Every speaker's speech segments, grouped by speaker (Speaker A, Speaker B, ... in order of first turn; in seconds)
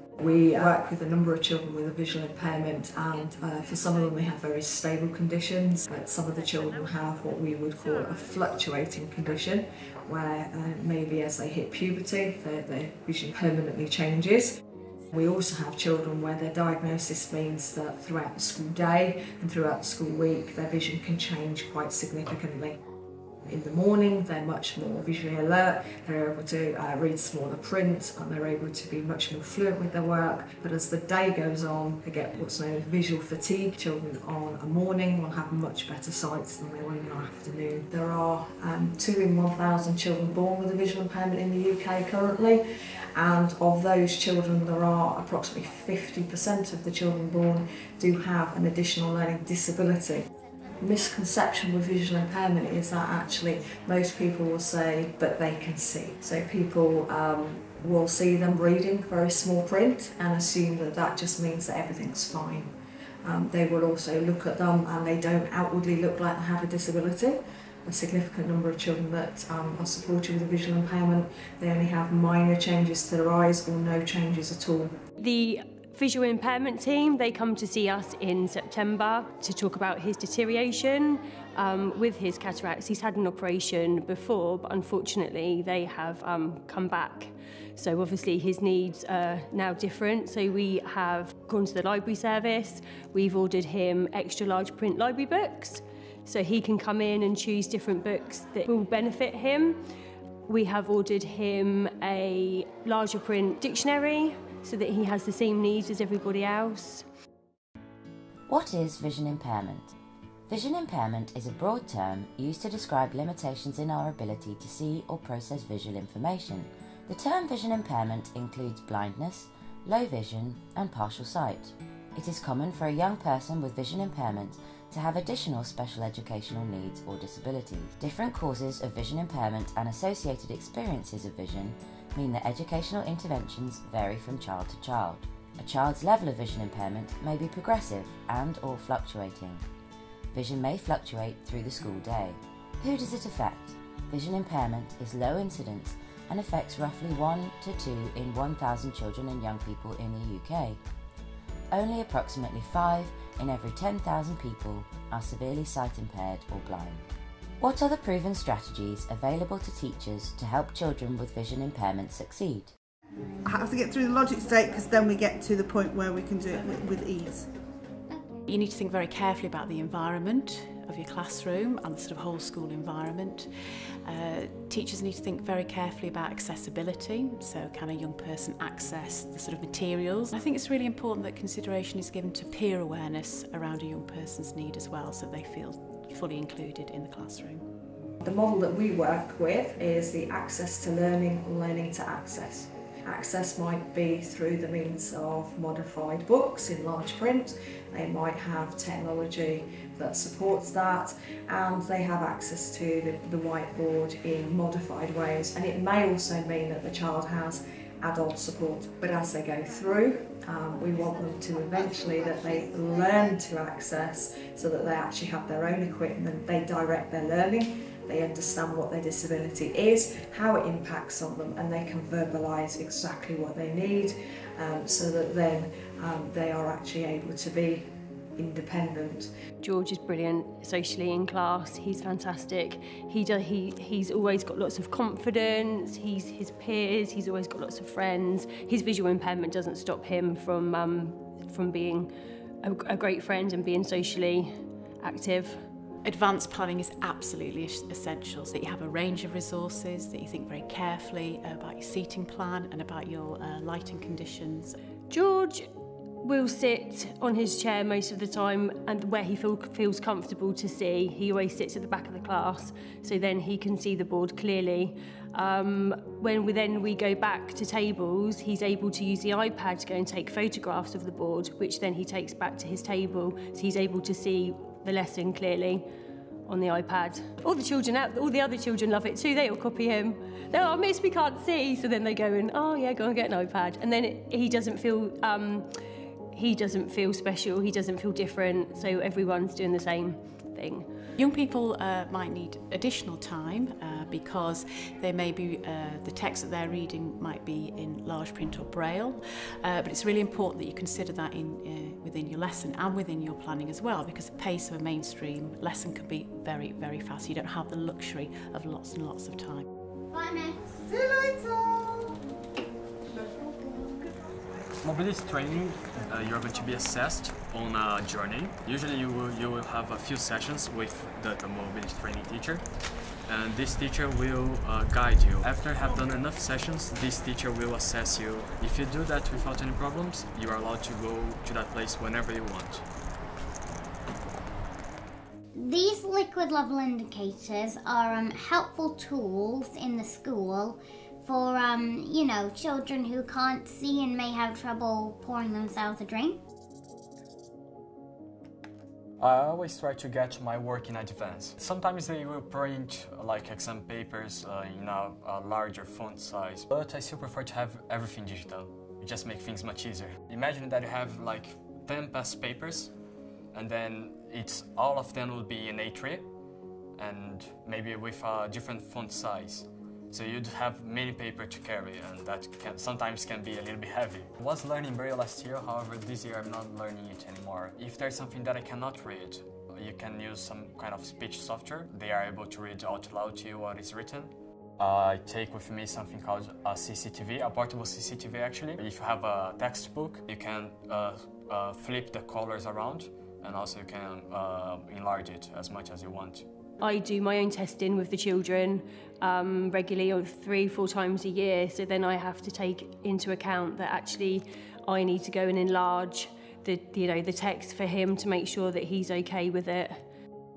Speaker A: 0.2-14.5, 15.1-22.8, 23.5-42.6, 43.1-50.3, 50.8-62.7, 63.2-74.9, 188.2-229.3
Speaker B: 75.2-99.8, 100.5-107.0, 229.6-242.1, 242.6-244.5, 245.0-245.6, 255.1-255.6, 256.2-275.9, 276.5-285.7, 286.3-290.9, 396.8-410.0
Speaker C: 108.5-109.9, 110.5-139.6, 140.3-150.8, 151.7-157.0, 157.6-162.7
Speaker D: 163.4-167.5, 310.9-312.2, 313.1-314.4
Speaker E: 168.1-168.4, 310.1-310.6, 335.6-346.4
Speaker F: 168.5-173.5, 174.1-187.7, 246.0-254.8, 291.2-309.7
Speaker G: 314.8-322.6, 323.3-332.9, 349.2-362.9, 363.5-366.3, 367.0-396.5